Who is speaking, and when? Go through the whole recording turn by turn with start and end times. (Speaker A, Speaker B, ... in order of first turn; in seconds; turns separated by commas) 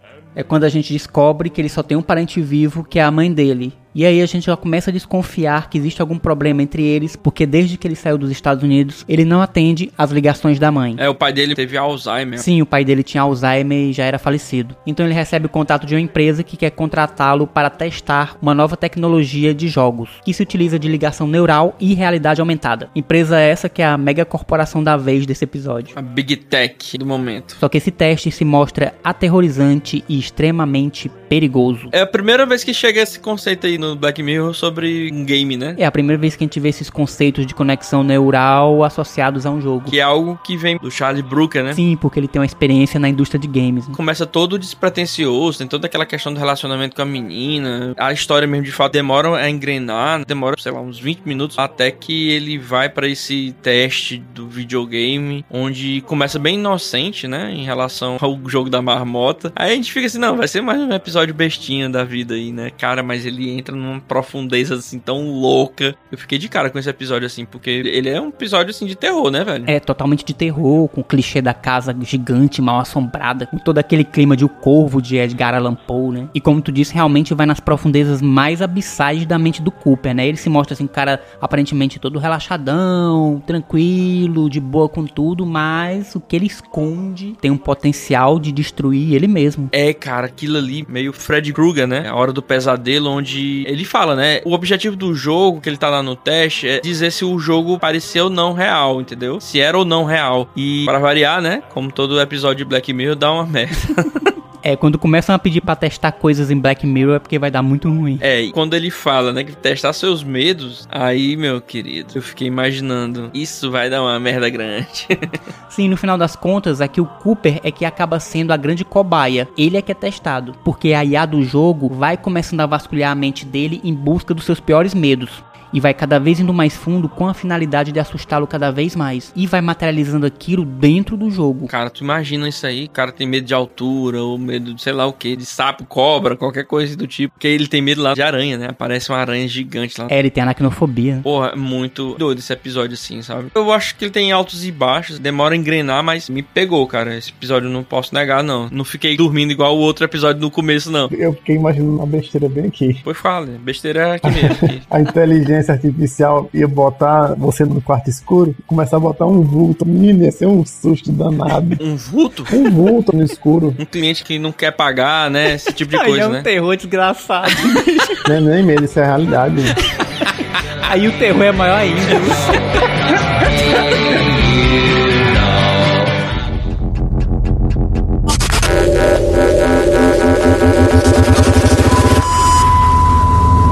Speaker A: 0.3-11.0, Speaker B: 11.0-12.4, Speaker A: 12.4-25.9, Speaker B: 25.9-27.6, Speaker A: 27.6-31.9, Speaker B: 31.9-35.8, Speaker A: 35.8-40.0, Speaker B: 39.9-41.8, Speaker A: 41.7-44.0, Speaker B: 43.9-69.7, Speaker A: 69.7-89.7, Speaker B: 89.7-104.3, Speaker A: 104.6-108.2, Speaker B: 108.2-115.4, Speaker A: 115.7-131.7, Speaker B: 131.7-140.1, Speaker A: 140.1-141.3, Speaker B: 141.2-151.1, Speaker C: 151.1-153.0, Speaker B: 153.1-154.9, Speaker C: 154.2-161.8, Speaker B: 161.8-162.6, Speaker C: 162.5-163.8, Speaker B: 163.8-166.5, Speaker A: 165.9-168.2, Speaker B: 167.6-168.2, Speaker C: 168.3-169.8, Speaker A: 170.2-172.7